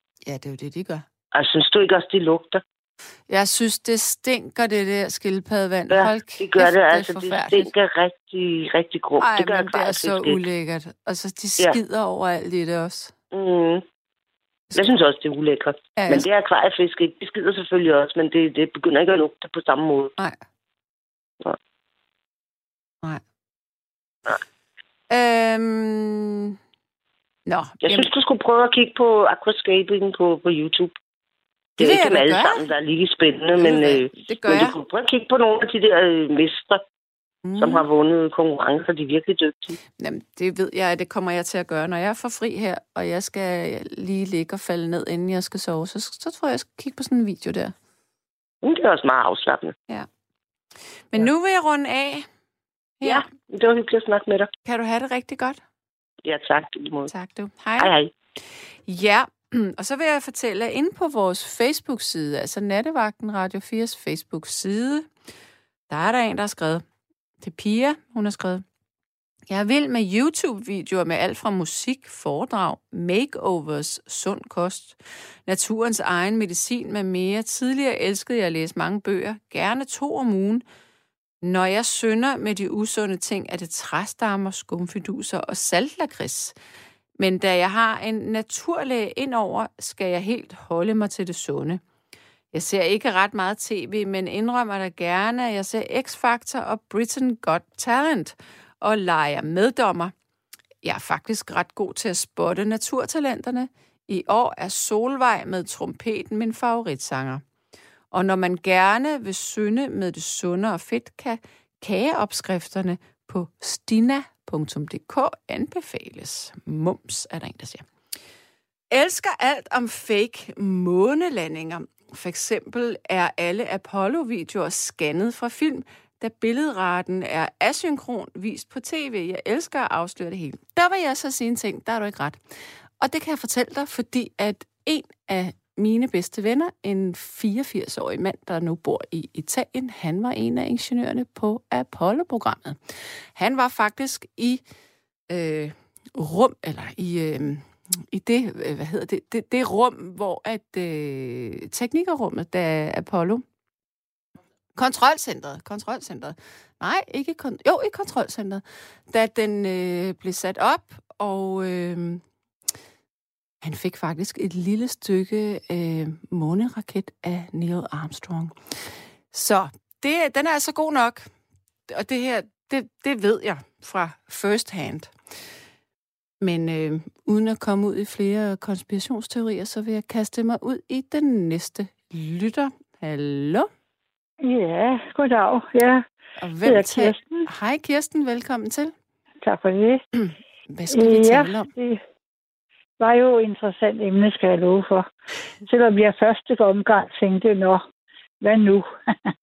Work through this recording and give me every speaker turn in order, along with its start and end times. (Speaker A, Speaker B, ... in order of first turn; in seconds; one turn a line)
Speaker A: 0.3-1.1
Speaker B: 1.3-2.6
Speaker A: 3.3-7.7
Speaker B: 5.9-10.4
Speaker A: 9.2-13.1
Speaker B: 13.3-13.8
Speaker B: 14.8-20.1
Speaker A: 16.0-16.3
Speaker A: 25.1-26.6
Speaker A: 27.5-28.1
Speaker B: 27.8-30.9
Speaker B: 31.8-36.8
Speaker A: 31.8-32.7
Speaker A: 33.6-34.8
Speaker A: 37.5-37.9
Speaker B: 37.6-39.8
Speaker A: 40.0-47.7
Speaker B: 48.6-49.8
Speaker A: 51.1-52.3
Speaker A: 53.0-53.3
Speaker B: 53.0-54.5
Speaker A: 54.6-55.6
Speaker B: 56.2-57.1
Speaker A: 57.1-57.9
Speaker B: 57.8-58.1
Speaker A: 58.9-65.1
Speaker A: 65.9-66.8
Speaker A: 67.4-68.6
Speaker A: 69.5-80.6
Speaker A: 81.4-86.5
Speaker A: 87.2-91.8
Speaker A: 92.5-100.1
Speaker A: 100.8-107.4
Speaker A: 108.1-117.9
Speaker A: 118.9-132.4
Speaker A: 133.0-144.6
Speaker A: 145.3-153.4
Speaker A: 154.8-162.2
Speaker A: 163.6-171.3
Speaker A: 171.9-175.1
Speaker A: 176.4-183.7
Speaker C: 184.4-186.1
Speaker A: 186.4-188.9
Speaker C: 186.6-187.5
Speaker C: 189.4-190.0
Speaker A: 190.2-191.7
Speaker C: 190.9-192.0
Speaker C: 193.0-195.1
Speaker C: 195.7-197.8
Speaker C: 198.4-199.3